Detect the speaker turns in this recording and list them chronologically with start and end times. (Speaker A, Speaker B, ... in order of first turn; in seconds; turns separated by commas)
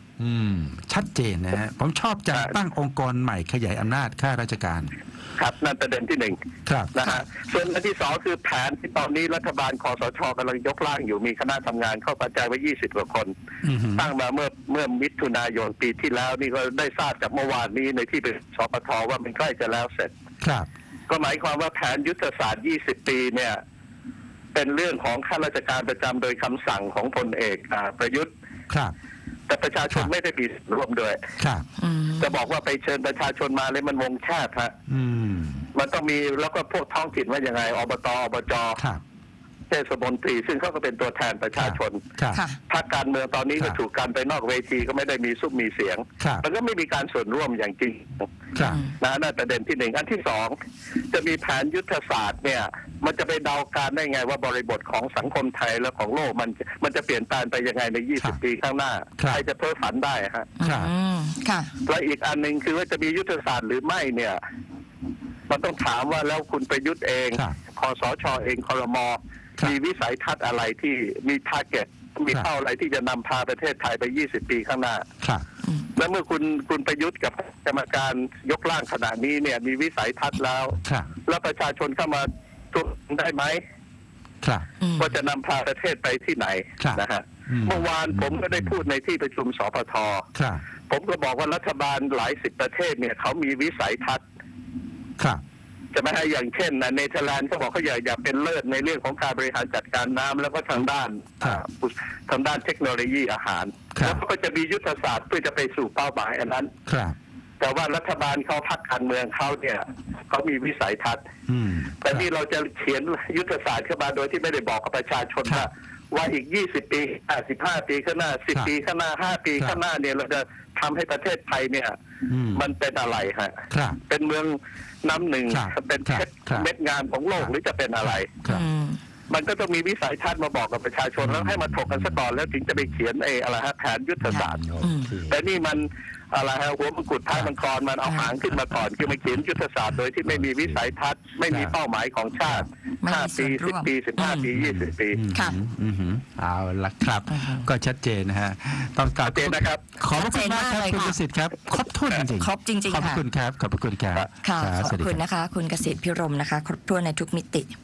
Speaker A: 0.2-4.9, Speaker B: 5.4-6.4, Speaker A: 6.7-6.9, Speaker B: 6.9-13.3, Speaker A: 13.6-14.1, Speaker B: 13.9-20.1, Speaker A: 20.4-20.7, Speaker B: 21.1-23.6, Speaker B: 24.5-28.3, Speaker B: 29.5-31.2, Speaker A: 31.4-31.6, Speaker C: 31.8-32.3, Speaker B: 32.2-34.7, Speaker A: 34.9-35.6, Speaker B: 35.7-38.8, Speaker B: 39.7-42.0, Speaker A: 41.5-42.4, Speaker C: 42.3-42.6, Speaker B: 42.7-48.3, Speaker A: 48.5-48.8, Speaker C: 48.6-48.9, Speaker B: 48.9-50.5, Speaker B: 51.1-60.5, Speaker A: 59.2-59.4, Speaker C: 60.6-61.7, Speaker A: 60.6-60.9, Speaker B: 61.9-64.4, Speaker B: 65.5-75.0, Speaker B: 76.0-83.6, Speaker A: 80.8-81.1, Speaker A: 84.4-84.7, Speaker C: 84.8-85.1, Speaker B: 85.0-90.2, Speaker A: 86.8-88.8, Speaker A: 90.3-90.6, Speaker B: 90.9-94.2, Speaker B: 95.9-106.7, Speaker A: 104.0-104.2, Speaker A: 106.9-107.2, Speaker B: 107.6-111.2, Speaker A: 111.5-112.3, Speaker B: 112.0-121.9, Speaker A: 122.3-122.6, Speaker B: 122.5-128.3, Speaker A: 123.7-124.0, Speaker A: 125.5-126.7, Speaker A: 127.4-128.7, Speaker C: 128.5-129.0, Speaker B: 129.3-134.6, Speaker A: 131.2-132.8, Speaker A: 134.2-135.4, Speaker C: 134.3-135.1, Speaker B: 135.3-145.2, Speaker A: 140.2-140.8, Speaker A: 141.5-141.8, Speaker C: 143.0-144.5, Speaker A: 144.5-155.2, Speaker C: 147.3-147.7, Speaker B: 149.2-149.8, Speaker C: 150.1-151.2, Speaker C: 152.4-153.2, Speaker C: 154.4-157.8